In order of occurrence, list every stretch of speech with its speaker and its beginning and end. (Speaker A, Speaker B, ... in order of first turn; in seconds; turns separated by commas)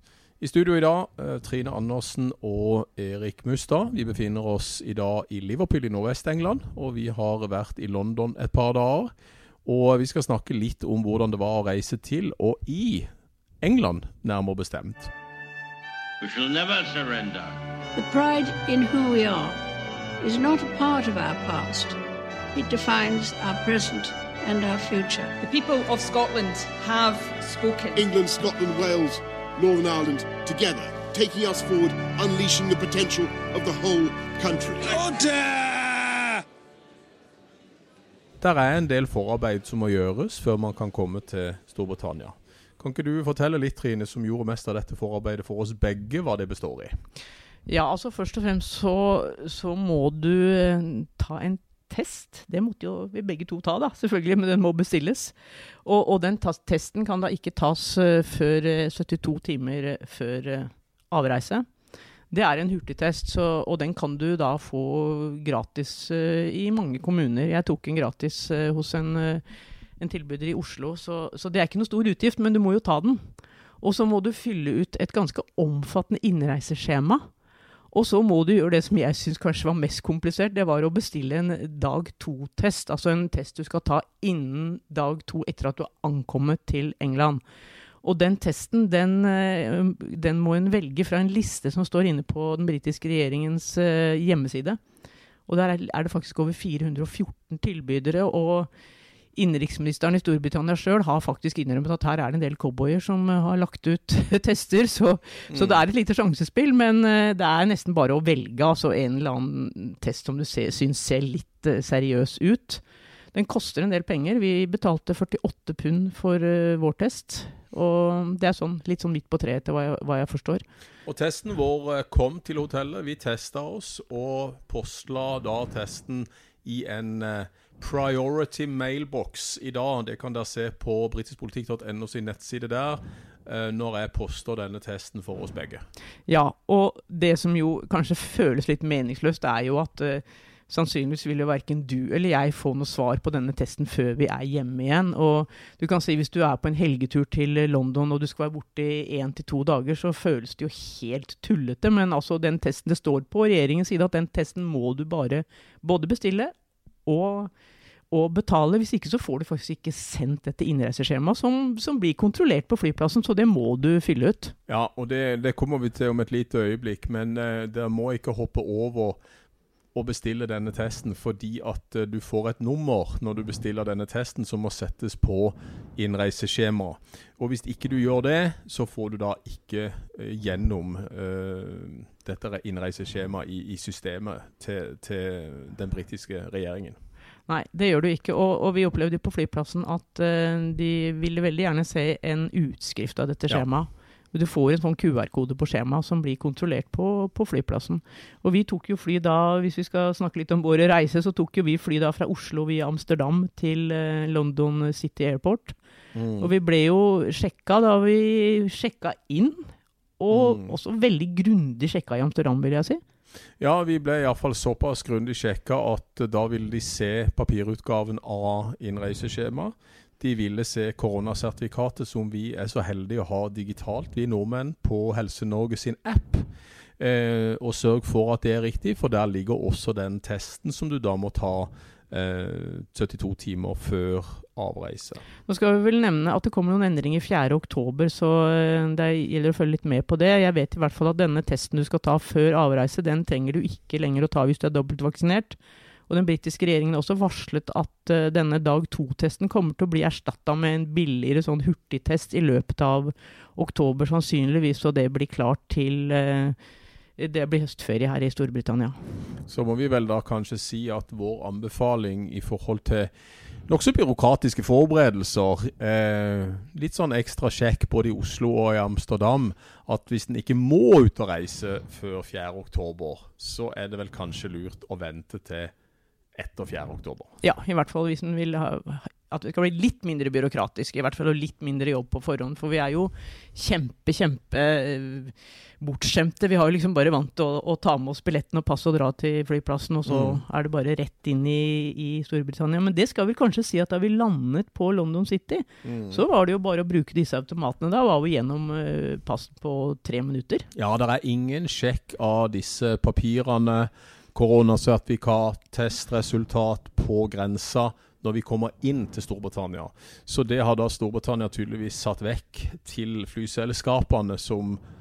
Speaker A: 0.4-9.1, Speaker A: 9.6-13.1, Speaker A: 13.6-15.1, Speaker B: 16.2-17.6, Speaker C: 17.9-19.6, Speaker C: 20.2-22.0, Speaker C: 22.5-25.3, Speaker D: 25.4-28.1, Speaker E: 27.9-35.1, Speaker B: 35.0-36.3, Speaker A: 38.4-46.9, Speaker F: 47.7-61.6, Speaker F: 62.3-69.4, Speaker F: 70.0-73.3, Speaker F: 73.8-77.2, Speaker F: 77.9-87.4, Speaker F: 88.0-94.8, Speaker F: 95.5-98.7, Speaker F: 99.3-112.8, Speaker A: 105.5-105.8, Speaker F: 113.3-120.6, Speaker A: 121.0-135.8, Speaker F: 136.3-156.5, Speaker F: 157.1-157.5, Speaker F: 158.1-164.5, Speaker A: 164.7-169.2, Speaker A: 169.9-187.0, Speaker F: 187.5-205.7, Speaker A: 206.1-206.5, Speaker F: 206.4-213.0, Speaker A: 210.3-210.8, Speaker A: 213.6-235.2, Speaker F: 235.5-245.6, Speaker F: 246.1-256.6, Speaker F: 257.2-259.0, Speaker A: 259.5-263.1, Speaker A: 263.7-275.7, Speaker A: 276.3-277.3, Speaker F: 277.4-300.7, Speaker A: 290.1-290.4, Speaker A: 295.8-296.2, Speaker A: 300.7-314.8